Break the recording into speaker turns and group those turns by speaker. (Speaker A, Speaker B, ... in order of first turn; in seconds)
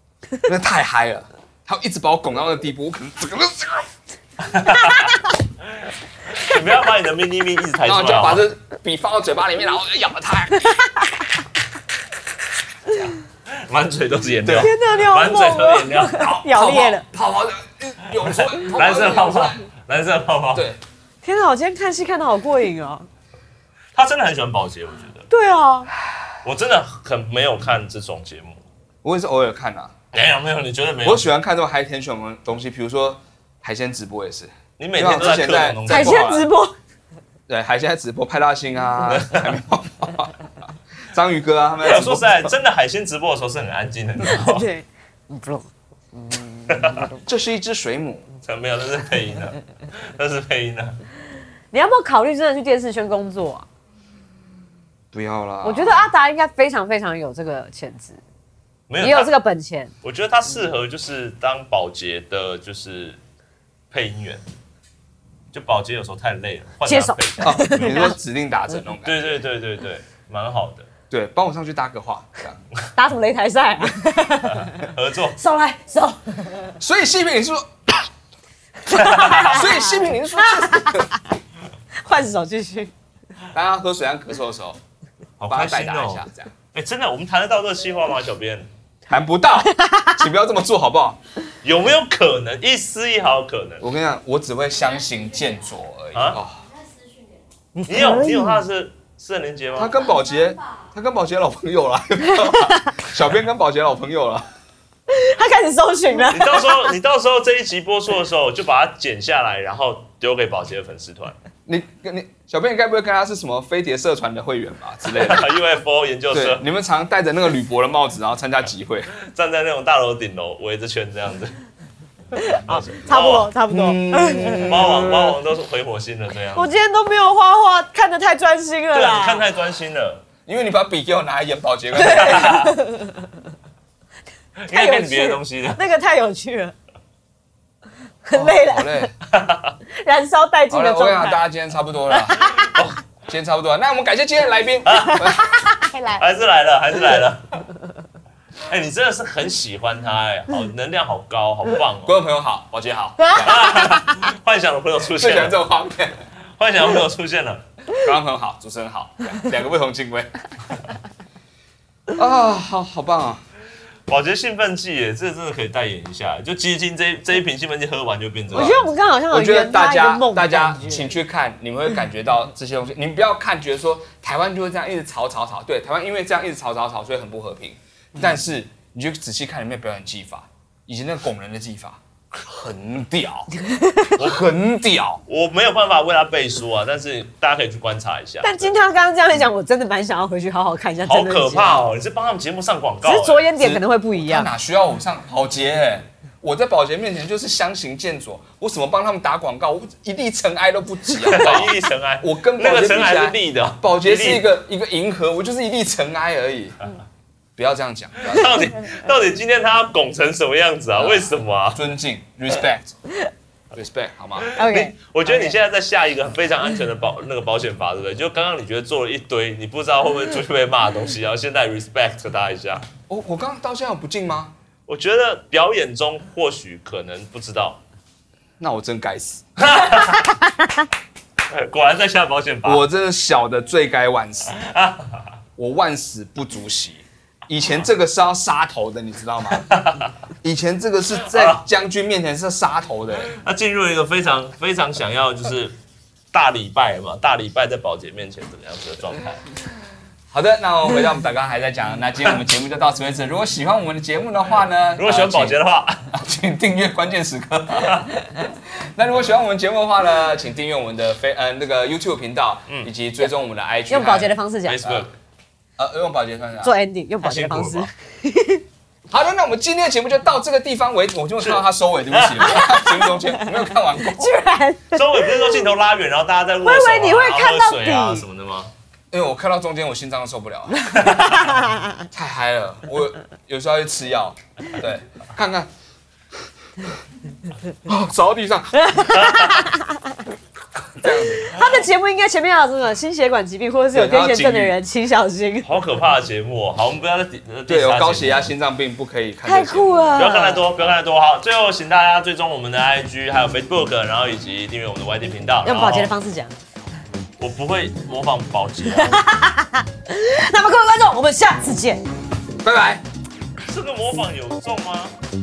Speaker A: 0.4-3.9, 7.8-10.8, 12.9-13.1, 14.4-14.7, 16.5-19.6, 29.0-29.9, 31.0-36.5, 37.5-40.3, 41.1-42.5, 47.2-48.2, 55.1-56.0, 67.4-69.4, 71.1-72.6, 76.8-78.1, 79.1-81.1, 83.5-84.8, 85.5-86.5, 89.1-91.2, 93.8-96.6, 99.8-104.4, 111.7-115.5, 116.3-119.1, 123.7-125.3, 130.4-132.7, 138.3-139.1, 140.7-142.4, 143.3-145.5, 152.0-153.9, 155.1-156.2, 158.0-160.3, 162.1-163.4, 169.3-183.5, 184.2-185.2, 193.6-206.8, 207.6-208.6, 211.0-212.9, 213.7-214.5, 223.1-224.5, 228.6-229.4, 232.6-234.6, 235.6-239.7, 240.4-243.3, 250.3-265.1, 265.8-266.7, 269.1-274.4, 279.1-280.9, 282.1-285.7, 287.8-288.8, 290.9-291.5, 293.9-294.7, 297.7-300.3, 312.6-313.0
Speaker B: 4.5-5.1, 6.3-8.5, 13.5-16.5, 18.2-20.7, 23.9-25.2, 26.4-28.6, 30.1-31.3, 34.8-36.2, 39.0-39.6, 41.8-44.7, 46.7-47.0, 48.4-51.0, 58.9-59.3, 60.0-63.2, 63.9-64.4, 65.5-68.1, 69.0-70.9, 74.4-75.4, 78.9-79.6, 85.4-88.7, 91.6-93.8, 96.1-96.4, 97.8-99.9, 106.3-111.3, 115.1-116.6, 119.1-121.5, 122.5-123.5, 124.6-126.7, 128.9-130.2, 132.0-132.8, 134.6-135.8, 139.3-139.8, 142.5-143.0, 144.8-145.4, 146.1-147.5, 148.6-152.2, 153.4-155.6, 156.6-157.6, 164.1-168.9, 185.3-188.7, 191.0-193.5, 201.2-204.5, 208.2-211.8, 214.4-222.8, 224.9-227.8, 229.6-230.4, 231.5-232.8, 234.5-235.2, 239.6-240.1, 241.3-241.6, 243.2-245.8, 246.3-249.4, 255.0-256.0, 257.8-258.1, 264.6-265.1, 267.2-267.9, 271.4-272.8, 274.9-278.7, 280.9-281.5, 289.1-289.6, 295.6-298.5, 300.2-306.1, 307.4-309.2, 313.6-315.1
Speaker C: 4.7-5.2, 10.6-11.1, 14.6-17.0, 21.2-23.1, 25.3-25.9, 35.9-36.7, 44.2-47.2, 51.7-53.6, 55.6-58.2, 59.0-59.9, 66.8-68.2, 72.9-74.8, 75.3-76.7, 78.9-81.2, 82.0-82.9, 89.7-90.2, 97.9-98.6, 102.3-103.0, 105.1-106.9, 122.3-124.9, 126.5-129.4, 132.0-133.2, 134.7-136.7, 138.2-139.1, 139.9-141.4, 142.1-142.8, 145.2-146.2, 153.2-154.1, 168.5-171.1, 183.6-184.1, 188.4-191.8, 193.0-194.5, 214.5-215.6, 263.9-265.0, 266.6-268.6, 272.5-273.4, 274.0-275.6, 276.6-278.2, 281.3-281.9, 288.8-290.2, 291.4-295.7, 299.4-300.7, 305.6-306.5, 308.9-312.0